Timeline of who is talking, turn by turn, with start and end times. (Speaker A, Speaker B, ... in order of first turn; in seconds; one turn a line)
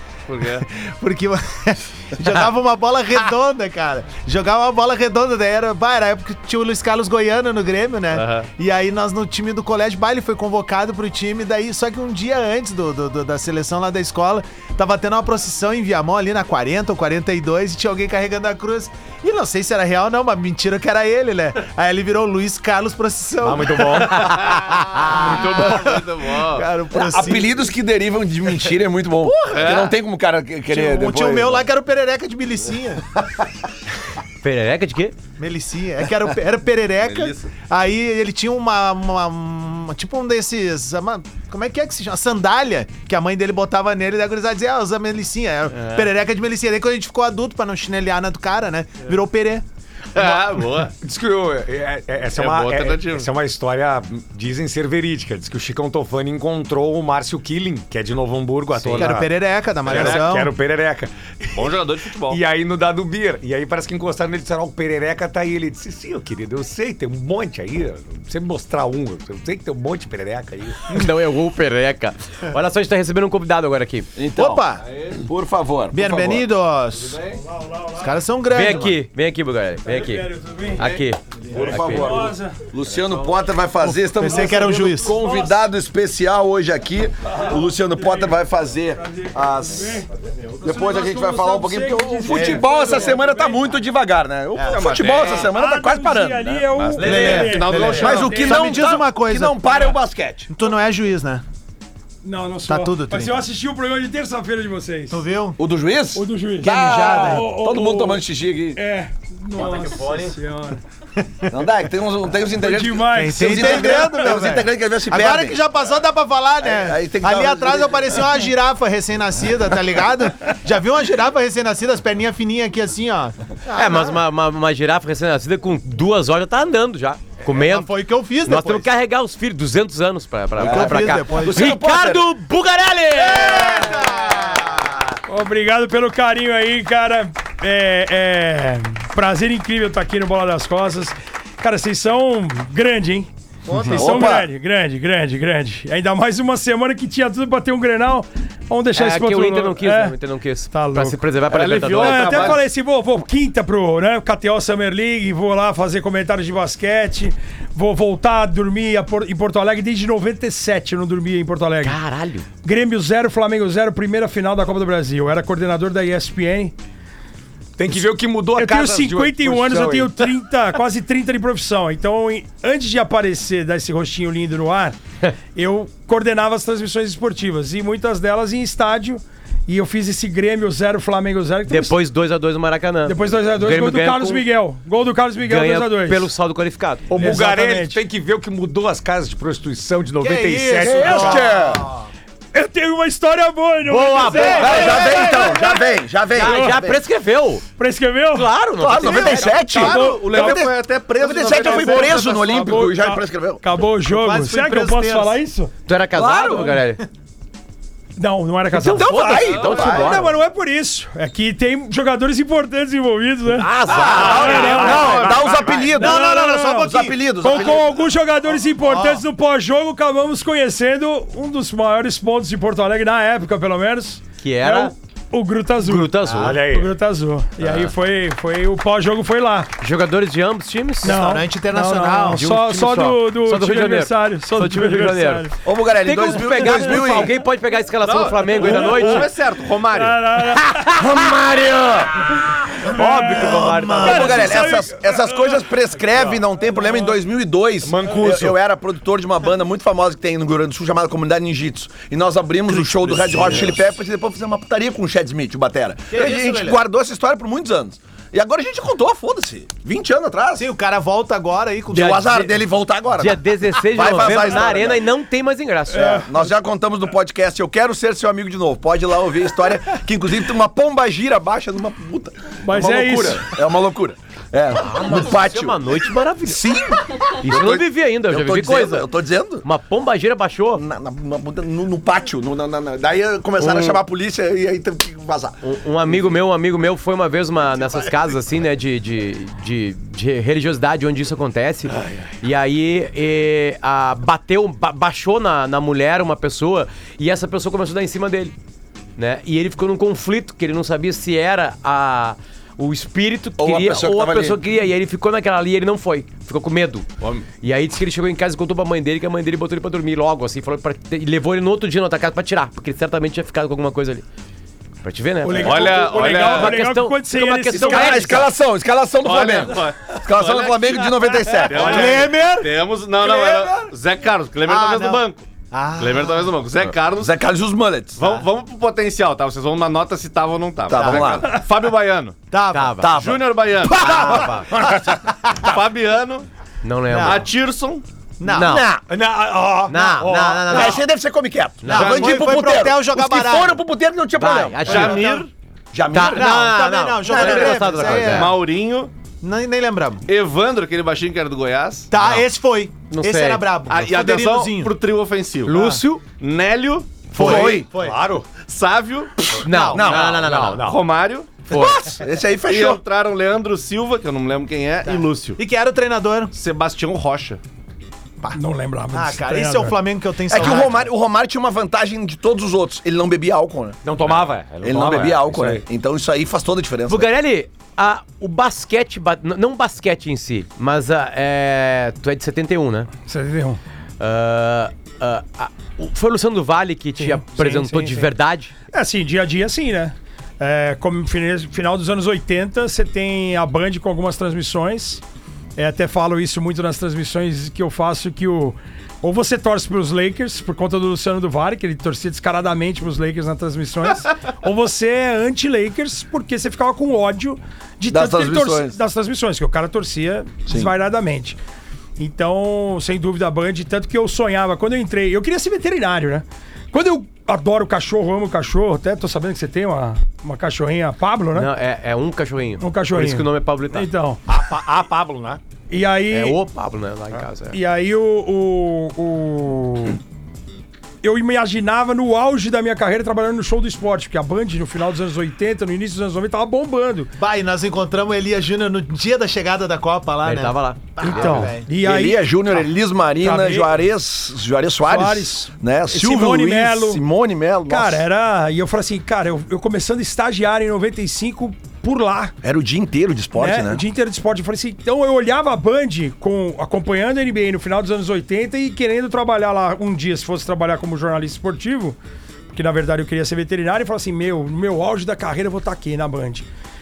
Speaker A: 0.3-0.7
Speaker B: 0.7-27.7
Speaker A: 8.1-8.5
Speaker C: 23.4-24.5
Speaker A: 24.0-26.7
Speaker D: 26.9-31.6
Speaker A: 29.5-29.9
Speaker B: 30.7-33.1
Speaker E: 34.4-35.2
Speaker B: 35.4-49.6
Speaker A: 37.0-37.5
Speaker A: 45.7-46.1
Speaker A: 50.1-50.9
Speaker B: 50.1-50.4
Speaker C: 51.0-61.8
Speaker A: 52.3-53.3
Speaker E: 58.8-59.2
Speaker B: 58.9-60.5
Speaker A: 59.8-60.3
Speaker A: 61.5-62.4
Speaker C: 62.3-71.1
Speaker E: 70.9-74.1
Speaker D: 74.1-74.6
Speaker B: 74.3-74.8
Speaker A: 74.8-75.2
Speaker D: 75.2-76.5
Speaker B: 75.9-77.2
Speaker A: 76.9-77.4
Speaker F: 77.5-78.1
Speaker B: 78.0-79.0
Speaker E: 78.5-82.2
Speaker F: 79.8-80.8
Speaker A: 80.8-81.0
Speaker D: 81.5-90.0
Speaker F: 81.7-82.6
Speaker B: 83.8-85.2
Speaker F: 84.2-85.6
Speaker F: 87.3-88.3
Speaker F: 89.0-90.1
Speaker F: 90.6-93.7
Speaker D: 90.6-96.6
Speaker B: 92.3-92.6
Speaker B: 94.5-95.0
Speaker A: 94.7-95.5
Speaker F: 95.5-98.7
Speaker A: 96.7-98.6
Speaker B: 97.0-100.0
Speaker D: 97.4-100.5
Speaker B: 100.5-101.4
Speaker F: 102.2-105.2
Speaker B: 102.7-103.4
Speaker B: 105.1-105.6
Speaker D: 105.6-108.8
Speaker F: 106.1-108.2
Speaker B: 106.7-107.5
Speaker F: 108.7-110.8
Speaker D: 111.5-115.6
Speaker F: 112.5-114.3
Speaker B: 113.2-124.2
Speaker D: 116.6-118.1
Speaker E: 123.7-127.9
Speaker B: 127.4-128.9
Speaker E: 128.4-133.8
Speaker D: 130.6-132.3
Speaker B: 130.6-131.7
Speaker B: 133.2-134.9
Speaker F: 135.3-150.1
Speaker D: 143.7-144.5
Speaker E: 148.9-152.6
Speaker F: 150.7-151.2
Speaker A: 151.5-152.6
Speaker F: 151.9-162.0
Speaker E: 161.8-162.4
Speaker F: 162.6-166.7
Speaker C: 167.8-170.3
Speaker F: 168.6-174.9
Speaker F: 175.5-181.9
Speaker E: 181.7-184.5
Speaker F: 183.1-186.3
Speaker E: 185.4-187.2
Speaker C: 187.1-191.5
Speaker F: 187.1-188.0
Speaker B: 190.2-192.1
Speaker D: 190.8-191.9
Speaker F: 192.5-196.8
Speaker E: 193.8-195.4
Speaker B: 194.2-195.6
Speaker D: 194.3-196.9
Speaker E: 196.3-197.6
Speaker F: 197.8-198.5
Speaker E: 198.3-199.7
Speaker D: 198.8-203.6
Speaker F: 199.0-200.7
Speaker A: 199.7-202.7
Speaker B: 199.8-200.2
Speaker F: 201.5-205.7
Speaker B: 204.0-205.4
Speaker E: 205.9-207.0
Speaker D: 206.1-206.8
Speaker F: 208.2-213.7
Speaker E: 208.7-210.3
Speaker D: 208.9-210.2
Speaker A: 209.3-209.9
Speaker E: 213.5-215.9
Speaker D: 213.8-218.0
Speaker A: 213.9-215.8
Speaker F: 214.3-215.2
Speaker B: 215.9-217.7
Speaker F: 215.9-229.7
Speaker B: 218.8-219.2
Speaker E: 224.4-224.9
Speaker E: 225.8-226.6
Speaker C: 226.3-226.9
Speaker E: 227.6-227.9
Speaker E: 229.8-231.2
Speaker F: 231.0-235.5
Speaker B: 231.0-232.5
Speaker E: 232.3-239.3
Speaker D: 235.6-237.4
Speaker A: 238.0-240.2
Speaker F: 238.6-239.3
Speaker F: 239.9-241.0
Speaker D: 240.9-260.6
Speaker F: 242.9-245.6
Speaker E: 242.9-244.7
Speaker C: 247.8-248.6
Speaker B: 256.1-256.8
Speaker B: 260.6-262.5
Speaker D: 261.9-265.0
Speaker E: 263.1-266.3
Speaker D: 265.9-279.6
Speaker F: 265.9-266.2
Speaker F: 272.6-273.5
Speaker E: 274.7-276.8
Speaker E: 277.4-279.1
Speaker E: 279.6-280.8
Speaker D: 280.7-286.3
Speaker E: 283.6-284.0
Speaker E: 285.6-298.5
Speaker D: 287.9-288.2
Speaker E: 299.2-307.1
Speaker D: 303.6-304.6
Speaker A: 307.2-307.4
Speaker E: 307.6-314.2
Speaker E: 315.0-318.6
Speaker F: 315.4-318.4
Speaker A: 315.6-316.8
Speaker D: 317.7-322.1
Speaker A: 319.2-325.4
Speaker B: 321.7-323.9
Speaker B: 324.6-326.5
Speaker A: 326.0-327.3
Speaker D: 327.2-328.2
Speaker A: 328.2-332.4
Speaker D: 330.9-331.6
Speaker B: 331.0-331.2
Speaker B: 332.5-333.0
Speaker E: 332.7-333.2
Speaker D: 333.0-335.1
Speaker A: 333.1-334.9
Speaker E: 333.9-334.7
Speaker B: 333.9-334.5
Speaker A: 335.6-336.4
Speaker E: 336.8-337.4
Speaker B: 337.1-337.4
Speaker A: 337.2-338.0
Speaker B: 338.4-338.8
Speaker E: 338.5-338.9
Speaker D: 338.6-339.0
Speaker C: 339.1-340.9
Speaker E: 339.9-341.1
Speaker D: 340.7-345.2
Speaker E: 341.8-342.5
Speaker B: 341.8-343.8
Speaker E: 344.3-345.4
Speaker A: 344.8-345.5
Speaker B: 344.9-345.4
Speaker D: 345.9-346.5
Speaker E: 346.1-348.6
Speaker B: 346.3-348.6
Speaker D: 347.2-348.1
Speaker A: 348.2-349.1
Speaker B: 349.4-350.2
Speaker A: 350.3-352.1
Speaker B: 352.1-354.9
Speaker E: 353.1-353.7
Speaker A: 353.9-355.8
Speaker E: 355.7-356.2
Speaker B: 355.7-356.0
Speaker A: 356.4-357.7
Speaker B: 357.3-358.2
Speaker D: 357.4-357.9
Speaker C: 357.4-358.5
Speaker A: 358.6-361.6
Speaker B: 359.6-360.2
Speaker E: 359.6-360.8
Speaker D: 359.9-360.5
Speaker C: 360.5-361.0
Speaker E: 361.7-362.2
Speaker D: 361.7-363.0
Speaker A: 362.6-365.6
Speaker B: 365.1-366.5
Speaker A: 366.5-367.6
Speaker F: 368.5-370.0
Speaker B: 369.1-371.1
Speaker D: 370.5-374.0
Speaker C: 374.0-375.8
Speaker D: 374.8-377.3
Speaker E: 377.1-383.1
Speaker F: 383.3-383.8
Speaker E: 384.2-388.7
Speaker F: 387.2-388.3
Speaker F: 388.9-395.2
Speaker F: 395.8-411.6
Speaker D: 408.1-409.0
Speaker D: 410.7-410.9
Speaker F: 412.2-421.7
Speaker E: 421.5-424.1
Speaker F: 422.8-424.4
Speaker C: 424.5-425.6
Speaker F: 425.9-426.6
Speaker E: 426.3-427.8
Speaker F: 427.7-430.2
Speaker F: 431.2-437.3
Speaker B: 437.4-441.9
Speaker E: 440.4-441.8
Speaker F: 441.2-442.6
Speaker D: 441.9-448.2
Speaker F: 443.4-443.9
Speaker F: 445.0-447.2
Speaker F: 447.9-452.5
Speaker D: 452.6-454.0
Speaker F: 453.6-462.2
Speaker F: 462.7-466.6